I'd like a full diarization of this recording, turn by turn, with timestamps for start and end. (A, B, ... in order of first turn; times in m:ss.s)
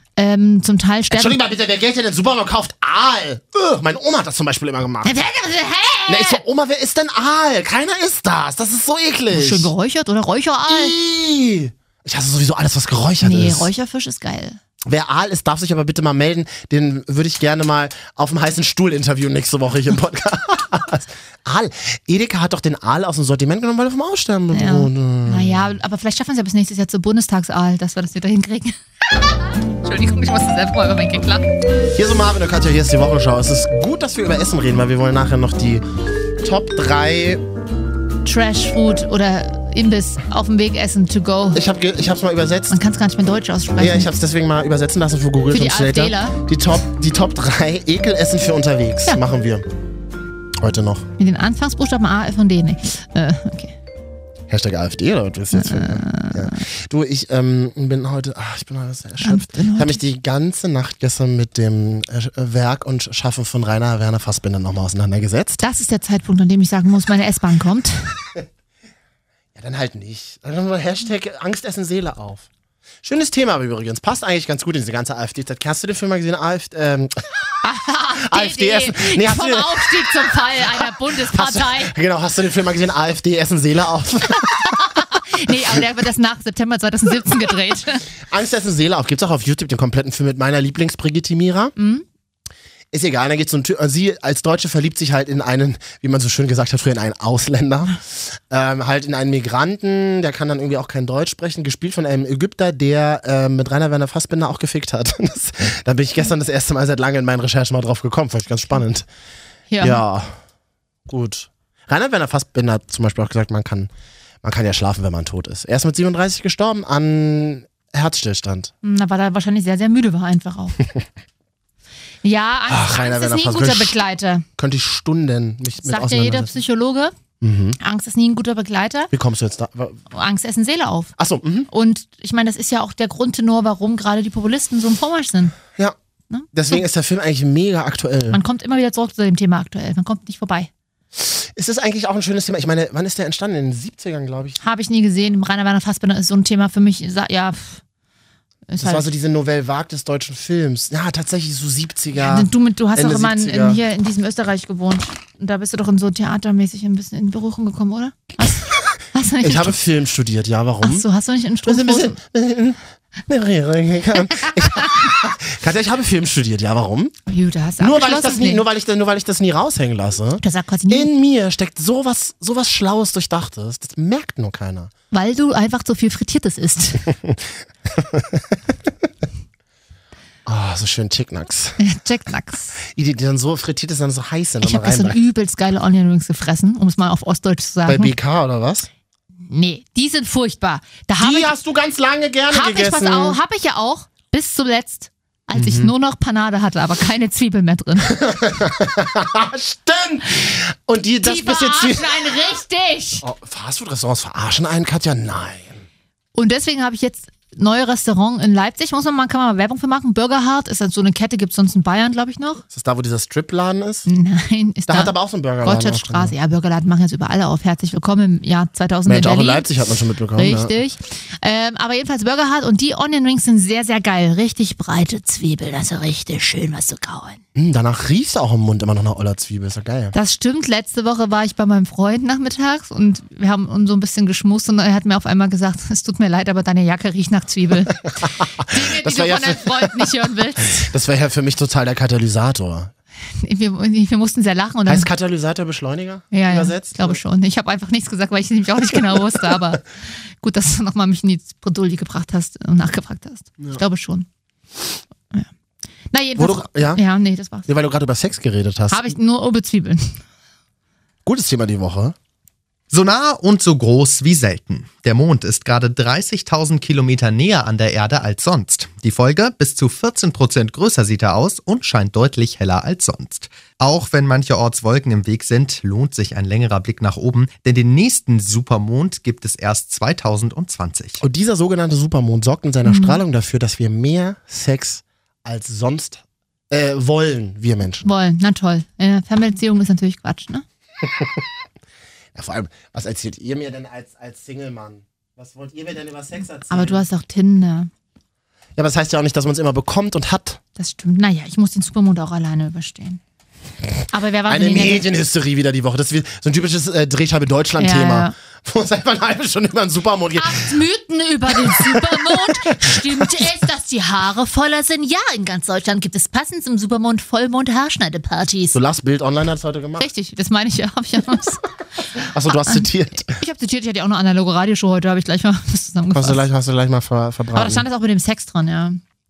0:00.2-0:01.4 A
0:01.1-0:05.2 B
0:05.0-0:06.4 A
0:06.1-0:09.7 B
0:09.3-0:11.0 A
0:10.7-0:13.7 B
0:13.2-0:14.6 A
0:14.9-0:25.6 B
0:24.5-0:31.5 A
0:32.0-0:35.8 B
0:36.4-0:37.4 B
0:38.2-0:41.6 A
0:41.5-0:42.8 B
0:42.7-0:44.1 A
0:43.8-0:49.7 B
0:45.5-0:46.4 A
0:50.6-0:51.1 B
0:51.2-0:53.8 A
0:54.5-1:05.6 B
0:55.5-0:56.6 A
0:59.2-1:00.0 A
1:05.6-1:08.2 A
1:09.6-1:12.5 B
1:13.0-1:17.1 B
1:17.6-1:21.9 A
1:18.2-1:24.8 B
1:24.4-1:28.1 A
1:28.3-1:31.7 B
1:31.8-1:32.0 A
1:32.9-1:49.1 B
1:49.7-1:50.0 A
1:49.8-1:50.4 B
1:51.1-1:53.9 B
1:54.4-1:58.7 B
1:58.8-2:00.8 A
2:02.2-2:04.5 A
2:02.7-2:04.0 B
2:04.6-2:06.5 B
2:05.8-2:07.2 A
2:07.4-2:07.8 B
2:07.8-2:09.1 A
2:09.1-2:10.0 B
2:10.1-2:11.1 A
2:11.2-2:11.7 B
2:11.7-2:15.6 A
2:16.3-2:16.8 A
2:16.5-2:18.4 B
2:18.3-2:20.7 A
2:21.2-2:24.6 B
2:24.6-2:27.8 A
2:28.7-2:29.1 A
2:28.8-2:33.8 B
2:32.2-2:39.8 A
2:39.4-2:41.1 B
2:40.8-2:42.2 A
2:41.7-2:47.2 B
2:44.5-2:44.8 A
2:47.3-2:48.6 A
2:47.8-2:54.9 B
2:50.4-2:51.1 A
2:55.1-2:57.0 A
2:58.0-2:58.4 B
3:00.5-3:01.8 B
3:01.8-3:02.8 A
3:02.8-3:05.2 B
3:04.6-3:08.1 A
3:07.9-3:08.9 B
3:09.4-3:11.5 A
3:11.2-3:13.4 B
3:12.5-3:18.2 A
3:15.6-3:15.9 B
3:18.1-3:22.4 B
3:21.2-3:23.2 A
3:23.2-3:25.8 B
3:26.4-3:32.6 A
3:32.7-3:34.1 B
3:34.1-3:39.7 A
3:34.9-3:36.3 B
3:39.1-3:40.8 B
3:40.4-3:47.4 A
3:47.6-3:50.1 B
3:50.1-3:58.1 A
3:58.6-4:00.1 B
3:58.6-4:00.9 A
4:00.7-4:02.9 B
4:03.3-4:05.1 A
4:04.9-4:07.2 B
4:06.3-4:14.3 A
4:16.1-4:17.7 A
4:16.4-4:17.0 B
4:17.7-4:19.1 B
4:18.9-4:20.2 A
4:21.2-4:22.2 B
4:22.9-4:41.2 C
4:41.2-4:48.1 B
4:42.8-4:43.2 A
4:48.0-4:50.6 A
4:51.0-4:51.3 B
4:52.4-4:57.0 B
4:56.7-4:57.9 A
4:58.8-5:00.6 B
5:00.8-5:03.2 A
5:04.1-5:05.1 A
5:04.5-5:10.7 B
5:07.8-5:08.3 A
5:10.4-5:18.8 A
5:11.6-5:13.4 B
5:18.7-5:20.1 B
5:20.0-5:21.6 A
5:22.2-5:23.4 B
5:22.5-5:26.4 A
5:26.1-5:27.8 B
5:27.5-5:29.0 A